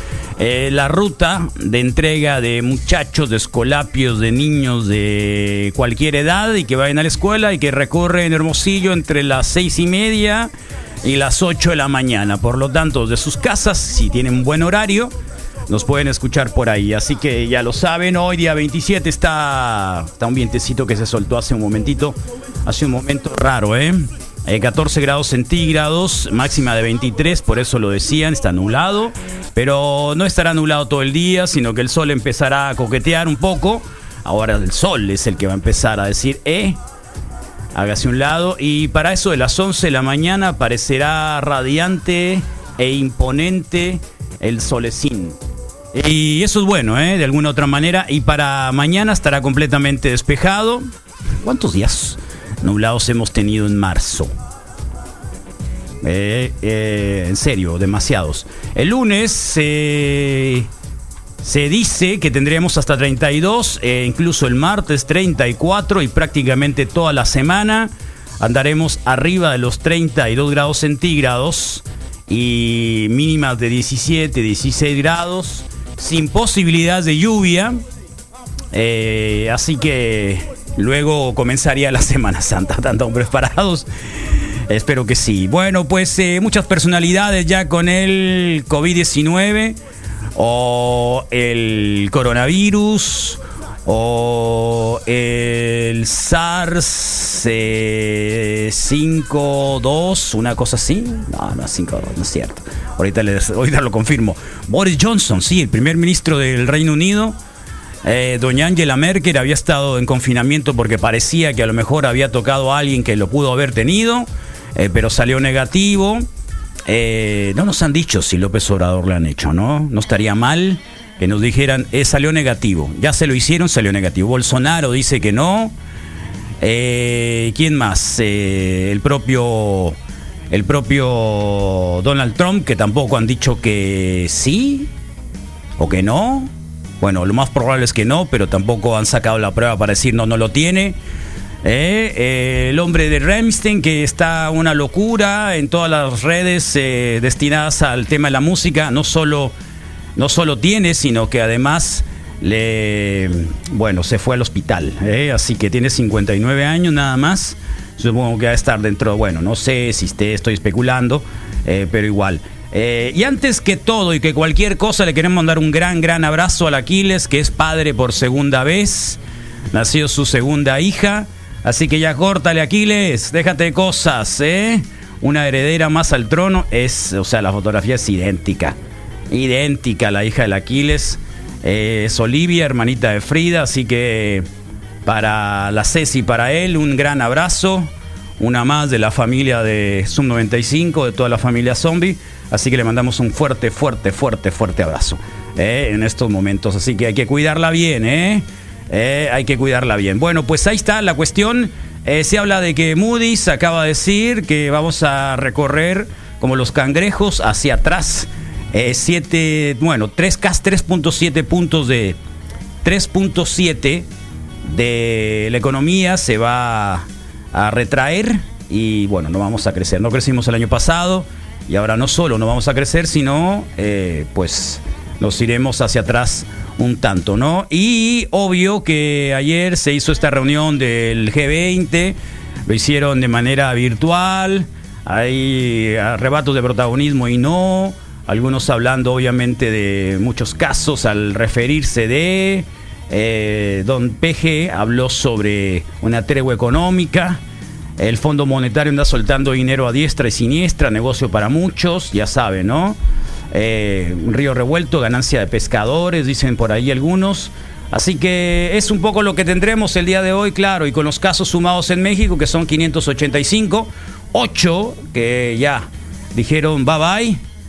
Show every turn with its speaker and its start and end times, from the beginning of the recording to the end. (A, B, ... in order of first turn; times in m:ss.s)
0:00.4-0:10.5 A
0:11.0-0:15.1 A
0:15.7-0:36.8 A
0:37.8-0:45.4 A
0:45.9-0:50.9 A
0:51.4-0:54.3 A
0:56.0-1:00.7 A
1:01.4-1:17.8 A
1:18.7-1:23.9 A
1:24.7-1:29.8 A
1:30.4-1:47.4 A
1:48.0-1:56.3 A
1:56.9-2:05.8 A
2:06.6-2:10.0 A
2:10.5-2:14.9 A
2:15.8-2:21.0 A
2:21.6-2:29.6 A
2:30.2-2:49.2 A
2:49.7-2:58.8 A
2:59.3-3:04.5 A
3:05.0-3:32.2 A
3:32.8-3:34.1 A
3:34.6-4:07.4 A
4:08.0-4:13.0 A
4:13.5-4:27.4 A